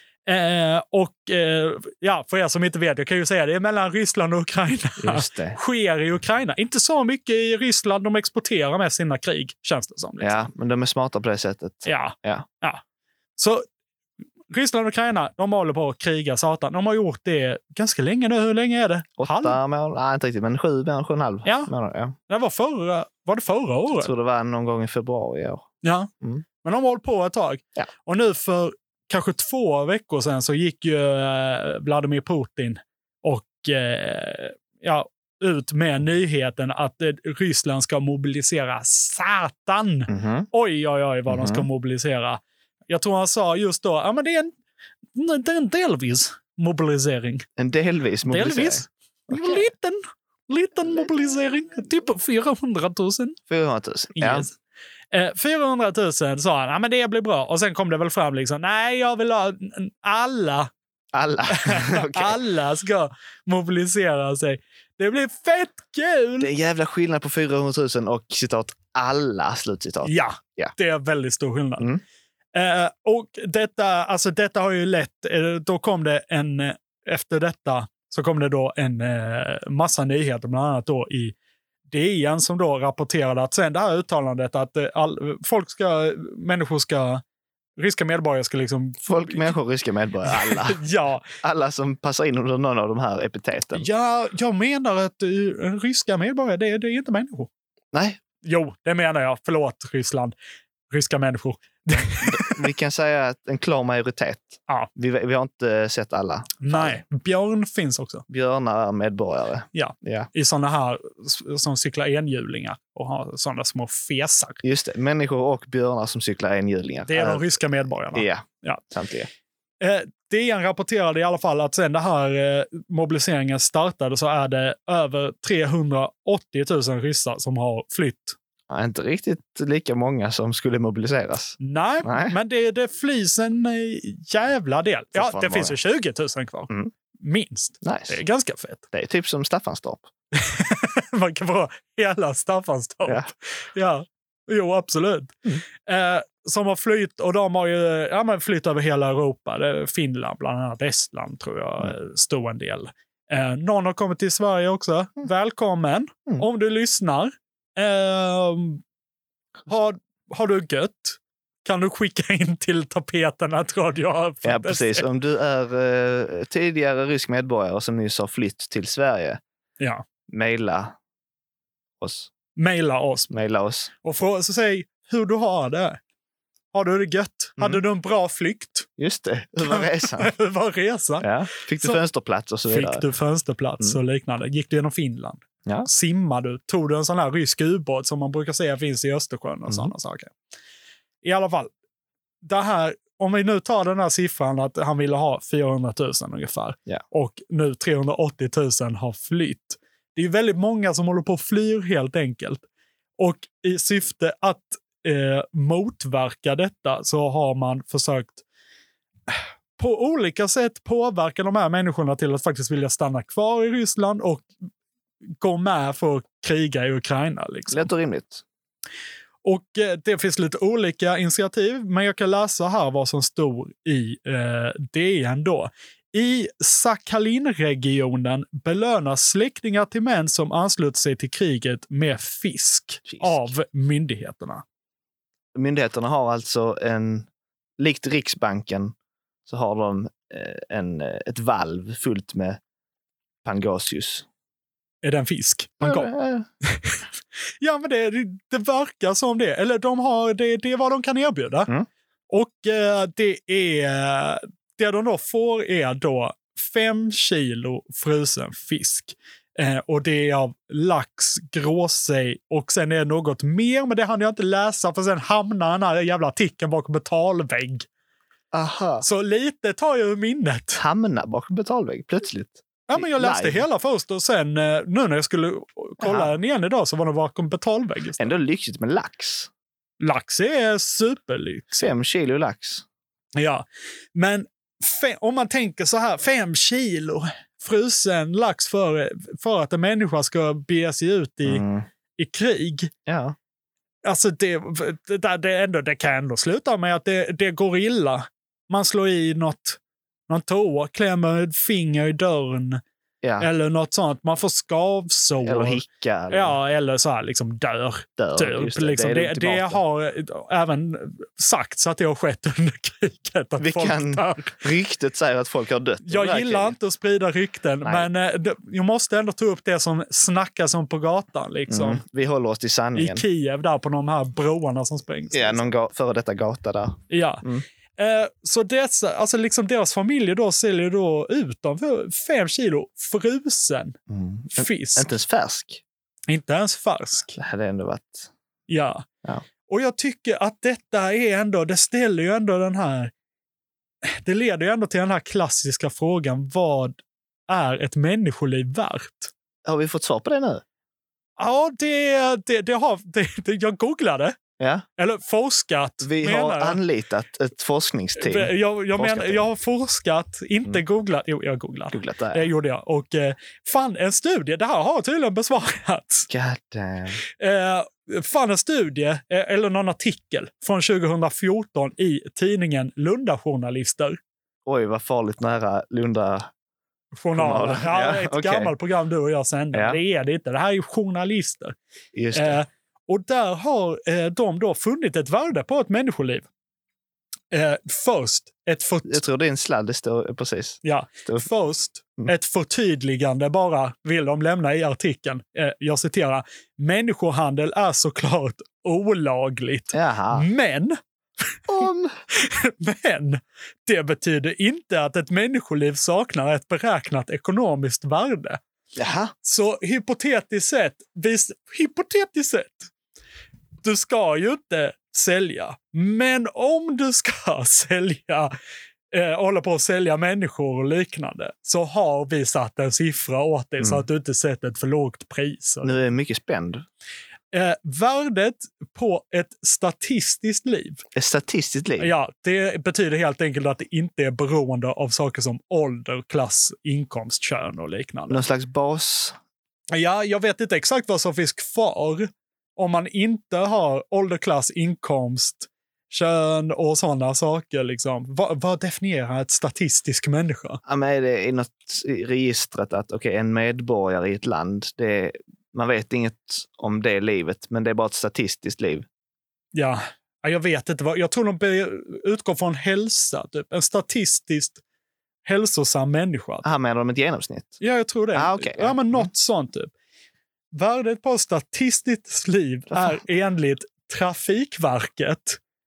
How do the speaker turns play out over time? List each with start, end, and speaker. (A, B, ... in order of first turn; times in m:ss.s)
0:00.2-0:10.4 A
0:05.0-0:05.6 B
0:10.2-0:12.4 B
0:11.8-0:12.8 A
0:13.4-0:13.6 A
0:14.5-0:19.6 A
0:19.2-0:22.1 B
0:21.4-0:21.7 A
0:22.3-0:24.1 A
0:23.9-0:25.7 B
0:25.8-0:26.1 A
0:26.6-0:44.5 A
0:40.1-0:40.5 B
0:41.3-0:41.7 B
0:45.1-0:47.4 A
0:47.6-0:49.6 B
0:48.2-0:53.4 A
0:53.5-0:54.5 B
0:54.2-0:54.5 A
0:55.1-1:00.7 A
1:01.1-1:02.4 B
1:01.5-1:06.5 A
1:06.4-1:10.7 B
1:10.0-1:11.9 A
1:12.5-1:21.3 A
1:21.9-1:27.2 A
1:27.8-1:29.5 A
1:29.0-1:30.8 B
1:30.3-1:31.2 A
1:31.4-1:33.9 B
1:33.7-1:37.5 A
1:37.9-1:38.2 B
1:38.4-1:40.3 A
1:40.9-1:42.6 A
1:42.2-1:47.0 B
1:46.6-1:48.2 A
1:48.3-1:50.3 B
1:49.7-1:54.6 A
1:54.6-1:57.6 B
1:57.1-1:58.8 A
1:58.1-1:59.3 B
1:59.8-2:08.4 A
2:08.7-2:12.4 B
2:11.6-2:18.8 A
2:15.1-2:15.8 B
2:17.8-2:18.2 B
2:18.9-2:20.1 B
2:20.3-2:38.8 A
2:39.7-2:45.0 A
2:44.4-2:49.4 B
2:50.3-2:51.0 B
2:52.0-2:52.3 B
2:52.6-2:53.3 A
2:53.3-2:53.9 B
2:54.0-2:56.0 A
2:56.7-2:58.9 A
2:59.0-3:00.3 B
2:59.6-3:01.3 A
3:01.2-3:03.0 B
3:02.7-3:10.3 A
3:09.7-3:09.9 B
3:11.2-3:11.7 A
3:12.4-3:22.6 A
3:23.2-3:28.4 A
3:29.3-3:34.4 A
3:35.4-3:37.9 A
3:37.7-3:38.4 B
3:39.4-3:54.6 A
3:53.0-3:53.5 B
3:55.5-3:58.9 B
3:59.4-4:02.6 B
4:03.4-4:04.2 B
4:05.0-4:06.1 A
4:05.8-4:06.5 B
4:06.6-4:07.0 A
4:07.6-4:11.7 A
4:12.3-4:27.8 A
4:28.5-4:29.0 B
4:29.0-4:30.8 A
4:30.8-4:33.6 B
4:32.9-4:38.3 A
4:36.0-4:36.3 B
4:38.2-4:39.5 B
4:40.0-4:41.8 A
4:41.7-4:42.8 B
4:43.4-4:51.6 A
4:51.4-4:51.9 B
4:52.2-4:52.9 A
4:53.0-4:53.4 B
4:54.0-5:02.8 A
5:03.2-5:03.5 B
5:03.4-5:14.6 A
5:05.4-5:06.6 B
5:08.2-5:09.8 B
5:13.6-5:16.8 B
5:16.0-5:22.0 A
5:17.8-5:18.1 B
5:21.7-5:23.2 B
5:23.0-5:25.7 A
5:25.3-5:27.6 B
5:27.1-5:27.4 A
5:28.0-5:34.0 A
5:34.1-5:35.8 B
5:34.5-5:35.1 A
5:36.3-5:37.3 A
5:37.3-5:38.3 B
5:38.7-5:39.0 A
5:39.7-5:43.1 A
5:44.0-5:49.3 A
5:49.6-5:50.6 B
5:51.4-5:54.3 A
5:54.6-5:54.8 B
5:55.0-5:56.8 A
5:56.0-5:59.4 B
5:58.2-6:06.3 A
6:01.9-6:02.5 B
6:06.3-6:07.2 B
6:07.4-6:14.2 A
6:14.6-6:16.5 B
6:17.1-6:21.7 A
6:17.3-6:18.7 B
6:19.7-6:20.0 B
6:22.1-6:22.6 B
6:22.3-6:26.5 A
6:27.5-6:29.2 A
6:29.0-6:31.5 B
6:30.8-6:41.0 A
6:39.9-6:40.4 B
6:41.7-6:42.1 B
6:42.3-6:48.6 A
6:49.0-6:49.3 B
6:49.4-6:52.9 A
6:53.8-6:58.5 A
6:59.1-7:06.0 A
7:03.8-7:04.0 B
7:05.8-7:06.8 B
7:07.5-7:11.0 A
7:11.1-7:12.1 B
7:12.0-7:18.4 A
7:18.3-7:19.4 B
7:19.9-7:30.8 A
7:30.8-7:39.1 B
7:39.7-7:44.8 A
7:45.4-7:46.6 A
7:46.6-7:47.8 B
7:47.8-7:49.9 A
7:48.3-7:49.3 B
7:50.7-7:55.6 A
7:52.9-7:53.2 B